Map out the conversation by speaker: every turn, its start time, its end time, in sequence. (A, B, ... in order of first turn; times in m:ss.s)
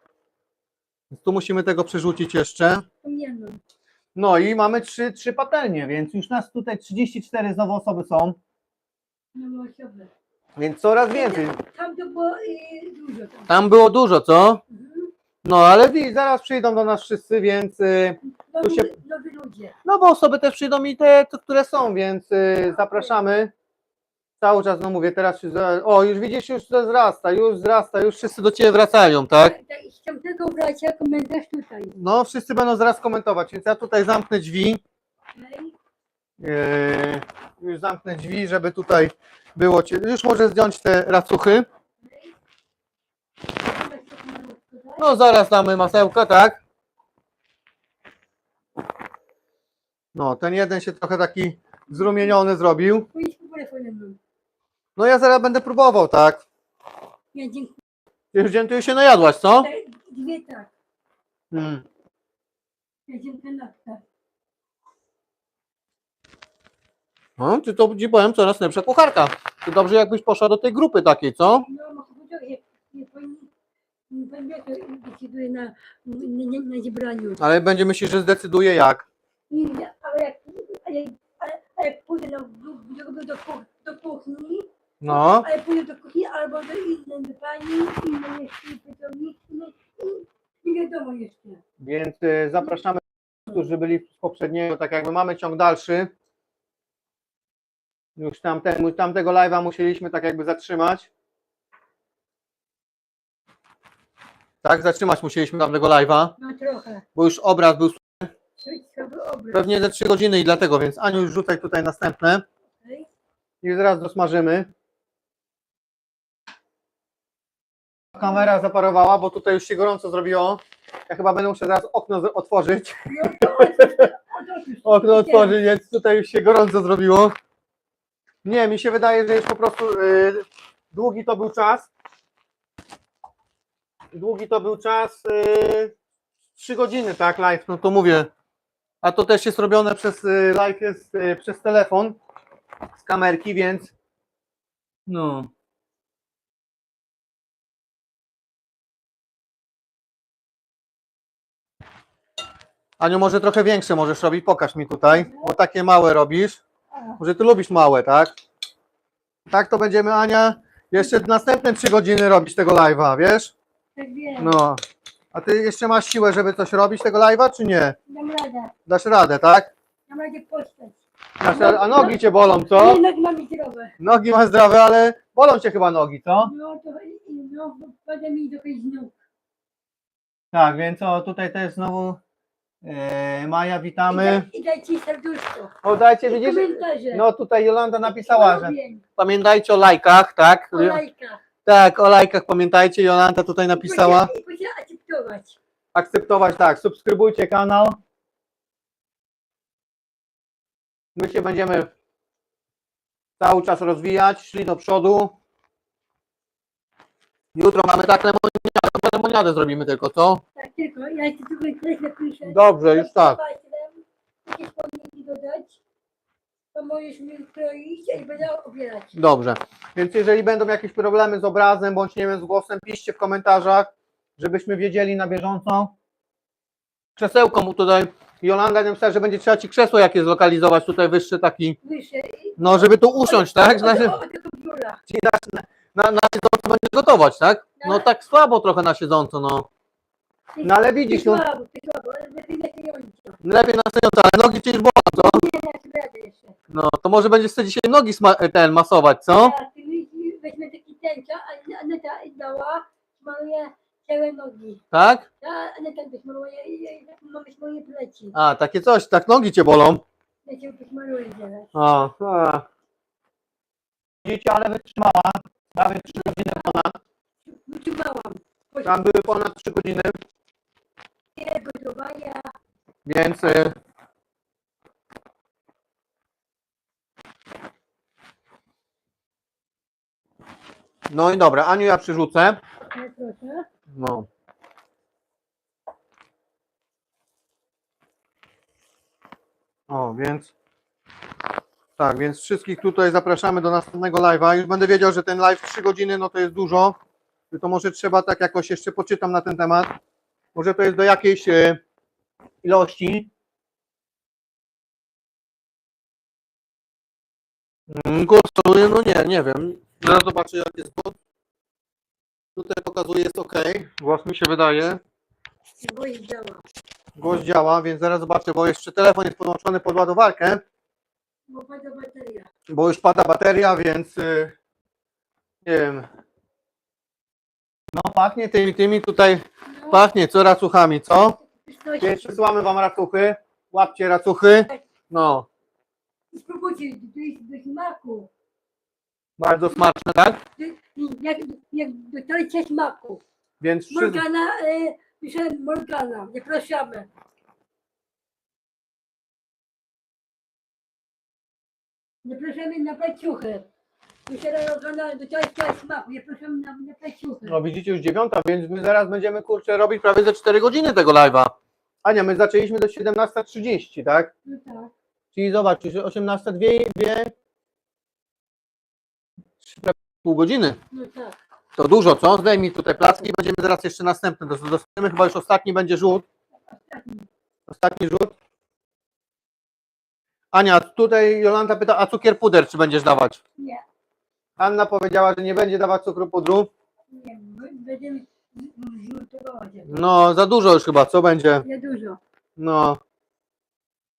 0:01.1-0:02.8 A
0:03.0-0:03.6 B
0:04.1-0:08.4 A
0:09.3-0:10.1 B
0:10.6-0:11.6 A
0:11.1-0:13.7 B
0:13.5-0:14.6 A
0:14.7-0:15.1 B
0:15.4-0:18.9 A
0:18.5-0:19.7 B
0:19.8-0:23.5 A
0:22.8-0:23.1 B
0:24.4-0:29.6 A
0:29.4-0:31.9 B
0:31.9-0:34.8 A
0:35.3-0:35.8 B
0:36.4-0:41.7 A
0:42.0-0:42.3 B
0:43.6-0:45.1 B
0:45.0-0:46.6 A
0:50.1-0:53.1 A
0:51.9-0:52.3 B
0:53.1-0:54.2 B
0:55.0-0:56.4 A
0:57.3-0:57.8 B
0:58.3-0:59.7 A
0:59.6-1:00.7 B
1:01.5-1:01.8 A
1:03.1-1:04.0 B
1:07.4-1:11.7 A
1:11.6-1:13.5 B
1:14.1-1:17.4 B
1:17.4-1:19.0 A
1:19.5-1:31.6 B
1:25.0-1:25.5 A
1:31.8-1:36.1 A
1:38.2-1:41.1 A
1:44.6-1:46.3 A
1:46.4-1:47.0 B
1:47.2-1:48.3 A
1:48.6-1:49.7 B
1:49.5-1:52.4 A
1:52.8-1:53.1 B
1:53.6-1:54.7 A
1:58.1-2:04.0 A
2:03.0-2:05.6 B
2:04.8-2:07.3 A
2:08.4-2:11.9 A
2:14.1-2:15.9 A
2:16.6-2:18.3 A
2:19.0-2:22.2 A
2:23.0-2:23.9 A
2:25.1-2:25.5 A
2:33.0-2:36.6 A
2:35.1-2:35.5 B
2:36.9-2:37.2 B
2:37.2-2:38.3 A
2:39.5-2:43.5 A
2:44.0-2:44.5 B
2:44.4-2:44.8 A
2:45.3-2:48.0 A
2:48.1-2:48.7 B
2:48.9-2:49.7 A
2:50.1-2:53.9 B
2:51.4-2:53.0 A
2:54.0-2:56.5 A
2:56.4-2:59.1 B
3:00.5-3:02.2 A
3:02.8-3:04.5 A
3:04.1-3:05.7 B
3:05.8-3:11.0 A
3:06.2-3:07.2 B
3:08.0-3:09.0 B
3:10.7-3:11.4 B
3:11.6-3:14.3 A
3:13.7-3:15.6 B
3:15.9-3:18.0 A
3:21.2-3:21.9 A
3:23.4-3:25.3 A
3:27.5-3:30.4 A
3:30.6-3:35.8 B
3:32.4-3:33.4 A
3:36.7-3:39.2 B
3:39.1-3:45.9 A
3:47.2-3:51.8 A
3:51.8-3:55.0 B
3:52.6-3:54.2 A
3:55.1-3:59.7 A
3:57.8-3:58.0 B
4:00.5-4:03.4 B
4:00.6-4:01.4 A
4:03.4-4:05.4 A
4:05.1-4:06.5 B
4:06.7-4:09.6 A
4:09.4-4:14.8 B
4:14.9-4:15.2 A
4:15.4-4:18.3 B
4:18.3-4:20.0 A
4:20.4-4:21.7 B
4:21.7-4:22.6 A
4:24.2-4:27.0 A
4:26.2-4:26.8 B
4:27.4-4:29.0 B
4:28.8-4:30.2 A
4:31.4-4:32.5 B
4:33.0-4:33.7 A
4:41.1-4:42.6 A
4:42.9-4:43.6 B
4:43.9-4:44.3 A
4:49.9-4:50.5 A
4:52.0-4:57.0 A
4:57.5-4:59.9 A
5:00.5-5:01.8 A
5:02.6-5:03.3 A
5:07.9-5:11.2 A
5:12.6-5:15.0 A
5:15.8-5:16.6 B
5:17.2-5:20.6 A
5:21.5-5:22.5 B
5:22.7-5:24.5 A
5:25.6-5:26.1 A
5:27.9-5:31.4 A
5:29.6-5:30.0 B
5:31.5-5:32.4 B
5:32.0-5:35.5 A
5:36.3-5:38.3 B
5:39.4-5:40.4 A
5:40.6-5:43.2 B
5:43.6-5:44.2 A
5:43.9-5:47.1 B
5:52.2-5:53.7 B
5:54.2-5:57.6 B
5:57.4-6:04.3 A
6:04.4-6:04.9 B
6:05.3-6:07.3 A
6:09.6-6:10.8 A
6:10.9-6:11.4 B
6:11.8-6:16.2 A
6:16.7-6:17.3 B
6:17.7-6:18.3 A
6:20.5-6:23.4 A
6:23.6-6:23.8 B
6:24.6-6:26.7 A
6:27.1-6:29.9 B
6:29.8-6:31.6 A
6:31.6-6:32.2 B
6:32.6-6:33.0 A